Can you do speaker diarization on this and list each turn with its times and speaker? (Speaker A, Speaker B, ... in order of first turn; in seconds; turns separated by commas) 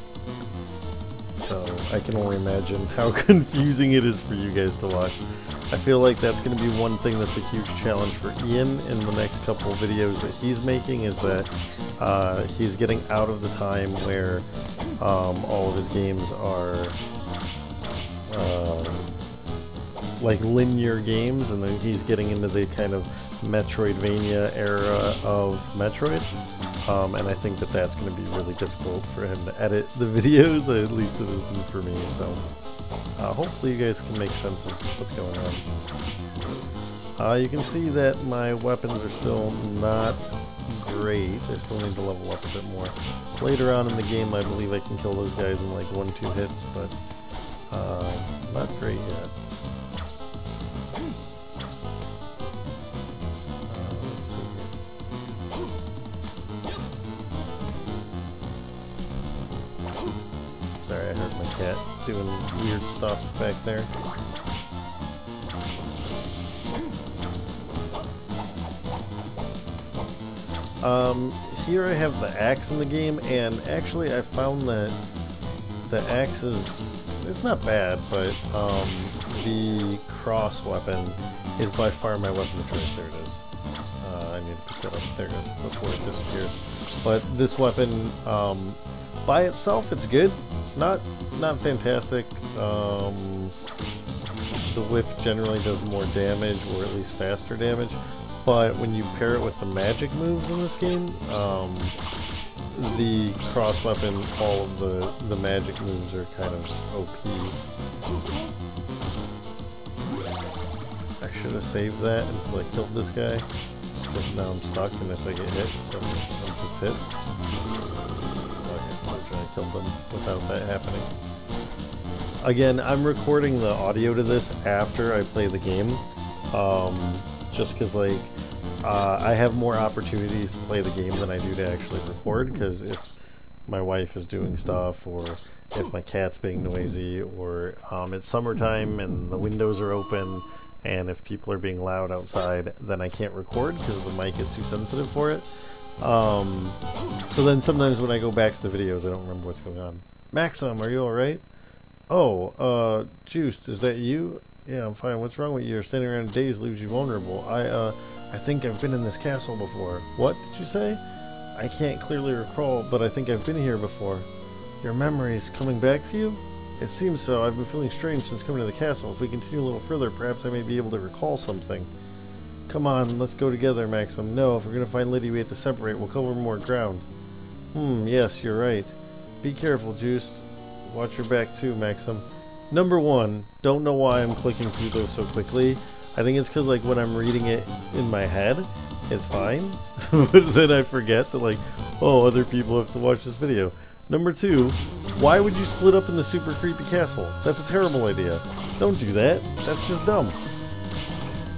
Speaker A: 1.4-14.5, Speaker A: 15.0-17.0, Speaker A: 18.3-19.2, Speaker A: 20.2-26.3, Speaker A: 26.8-32.4, Speaker A: 33.2-35.7, Speaker A: 37.2-47.0, Speaker A: 47.7-49.3, Speaker A: 53.7-54.8, Speaker A: 60.8-63.9, Speaker A: 70.8-75.0, Speaker A: 75.8-83.4, Speaker A: 84.0-93.5, Speaker A: 94.7-102.0, Speaker A: 102.7-107.6, Speaker A: 111.2-117.0, Speaker A: 118.5-121.1, Speaker A: 122.4-133.1, Speaker A: 133.7-145.5, Speaker A: 146.0-146.8, Speaker A: 147.3-151.4, Speaker A: 152.1-161.0, Speaker A: 161.5-164.3, Speaker A: 164.8-171.9, Speaker A: 172.7-177.1, Speaker A: 177.7-200.4